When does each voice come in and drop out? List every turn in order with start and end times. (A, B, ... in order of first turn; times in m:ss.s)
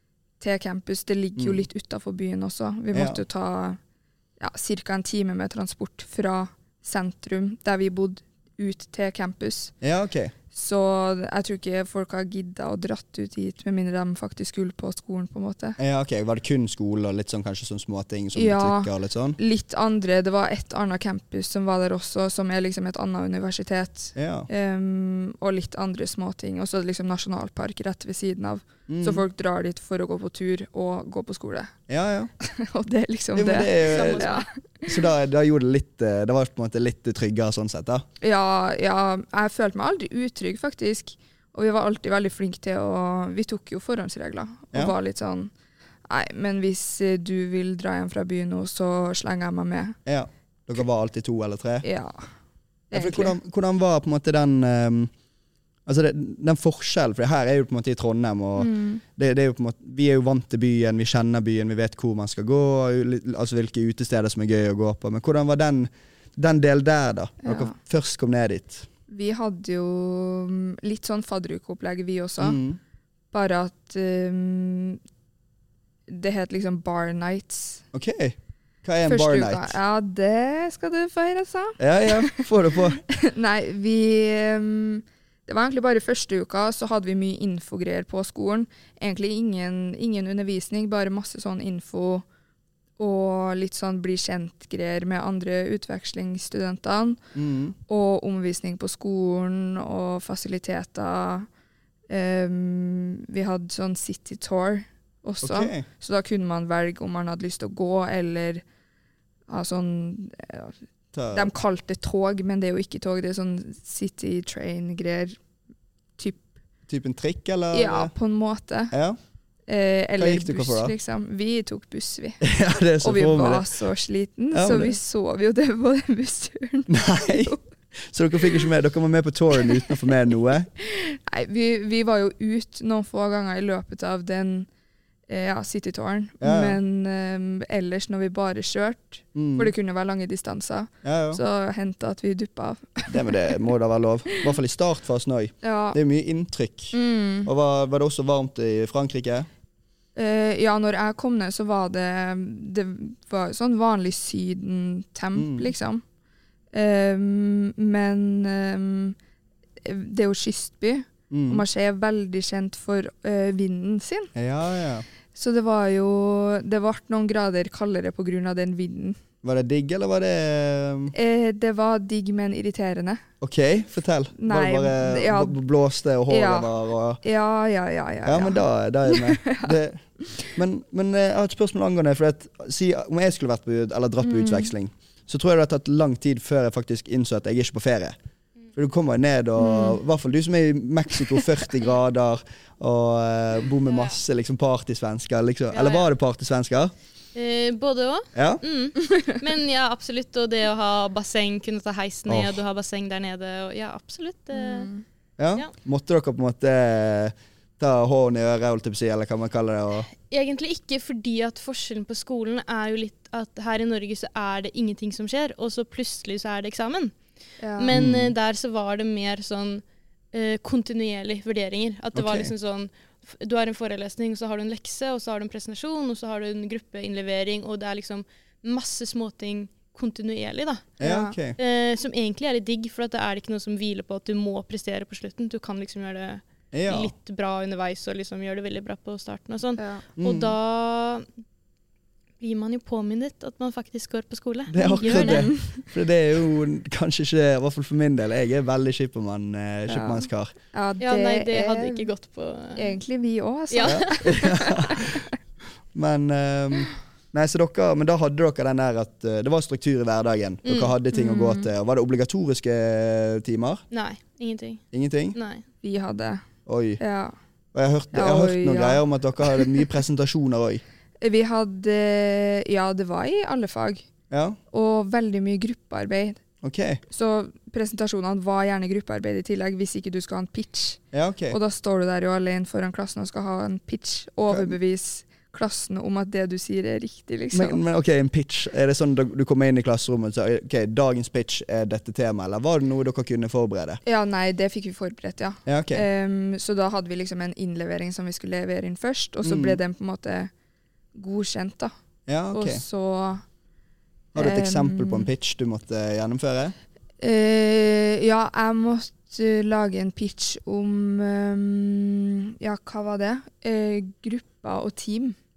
0:00.4-0:03.8 A
0:01.4-0:01.6 B
0:02.9-0:03.2 B
0:04.4-0:09.7 A
0:09.8-0:10.3 B
0:10.5-0:15.8 A
0:15.8-0:19.4 B
0:18.4-0:31.7 A
0:24.2-0:24.5 B
0:28.9-0:29.2 B
0:31.9-0:32.3 B
0:32.4-0:34.9 A
0:33.4-0:34.4 B
0:33.8-0:34.5 C
0:34.9-0:38.0 B
0:38.2-0:45.5 A
0:46.1-0:50.0 A
0:50.1-0:51.8 B
0:51.8-0:52.3 A
0:52.9-0:53.4 A
0:52.9-0:55.1 B
0:55.9-1:08.9 B
0:58.6-0:59.0 A
1:07.4-1:07.8 A
1:09.1-1:12.6 A
1:12.4-1:12.8 B
1:13.3-1:15.0 A
1:16.1-1:17.8 A
1:17.9-1:19.8 B
1:19.1-1:22.5 A
1:21.8-1:23.0 B
1:23.0-1:32.2 A
1:33.0-1:37.2 A
1:37.4-1:37.8 B
1:37.9-1:41.5 A
1:42.1-1:48.6 A
1:45.4-1:45.8 B
1:49.5-1:50.8 A
1:51.1-1:51.5 B
1:51.3-1:55.4 A
1:56.2-1:56.5 A
1:56.9-1:58.1 B
1:57.7-1:59.0 A
1:58.9-1:59.2 B
1:59.7-2:02.4 A
2:00.2-2:00.9 B
2:02.4-2:03.7 B
2:03.0-2:07.6 A
2:04.5-2:05.0 B
2:06.9-2:10.7 B
2:10.8-2:14.7 A
2:15.3-2:23.6 A
2:16.4-2:16.8 B
2:19.4-2:19.7 B
2:21.0-2:21.4 B
2:23.1-2:29.5 B
2:25.6-2:26.0 A
2:26.9-2:27.5 A
2:30.2-2:36.0 A
2:35.4-2:35.7 B
2:36.7-2:39.2 A
2:39.8-2:44.3 A
2:41.3-2:41.6 B
2:44.4-2:45.1 B
2:45.3-2:49.2 A
2:49.4-2:51.1 B
2:51.1-2:53.2 A
2:53.4-2:57.2 B
2:54.4-2:55.6 A
2:56.3-2:56.7 A
2:57.2-2:59.8 A
2:58.2-3:08.2 B
3:04.2-3:04.7 A
3:08.8-3:16.9 B
3:09.6-3:10.0 A
3:13.9-3:14.2 C
3:15.7-3:16.1 C
3:17.4-3:24.9 C
3:18.4-3:18.6 B
3:22.3-3:22.6 B
3:24.5-3:25.0 A
3:25.4-3:30.1 B
3:30.3-3:37.2 C
3:37.6-3:37.9 A
3:37.8-3:51.0 C
3:37.9-3:38.4 B
3:42.2-3:42.5 B
3:51.0-3:51.6 B
3:51.0-3:51.4 A
3:51.6-4:01.3 C
3:56.7-3:57.1 B
3:59.8-4:00.0 A
4:00.2-4:00.6 B
4:02.4-4:05.5 C
4:04.7-4:10.5 B
4:04.8-4:05.9 A
4:09.9-4:12.1 A
4:11.0-4:13.0 C
4:12.8-4:15.2 A
4:13.7-4:14.6 C
4:13.8-4:15.3 B
4:15.9-4:23.8 B
4:20.6-4:20.9 C
4:21.1-4:21.7 A
4:23.9-4:25.6 C
4:24.9-4:25.4 B
4:25.8-4:26.4 A
4:26.7-4:27.0 B
4:27.0-4:27.4 A
4:27.7-4:30.8 B
4:28.1-4:29.8 A
4:31.2-4:34.1 A
4:34.3-4:34.6 B
4:34.7-4:36.4 A
4:36.6-4:37.0 B
4:37.1-4:47.8 A
4:41.1-4:41.6 B
4:44.5-4:44.8 B
4:47.5-4:54.0 B
4:54.0-5:00.5 A
4:55.7-4:56.1 B
4:59.4-4:59.8 B
5:01.2-5:01.9 A
5:02.3-5:02.8 B
5:02.5-5:03.4 A
5:04.3-5:06.7 B
5:04.4-5:05.3 A
5:07.2-5:15.4 A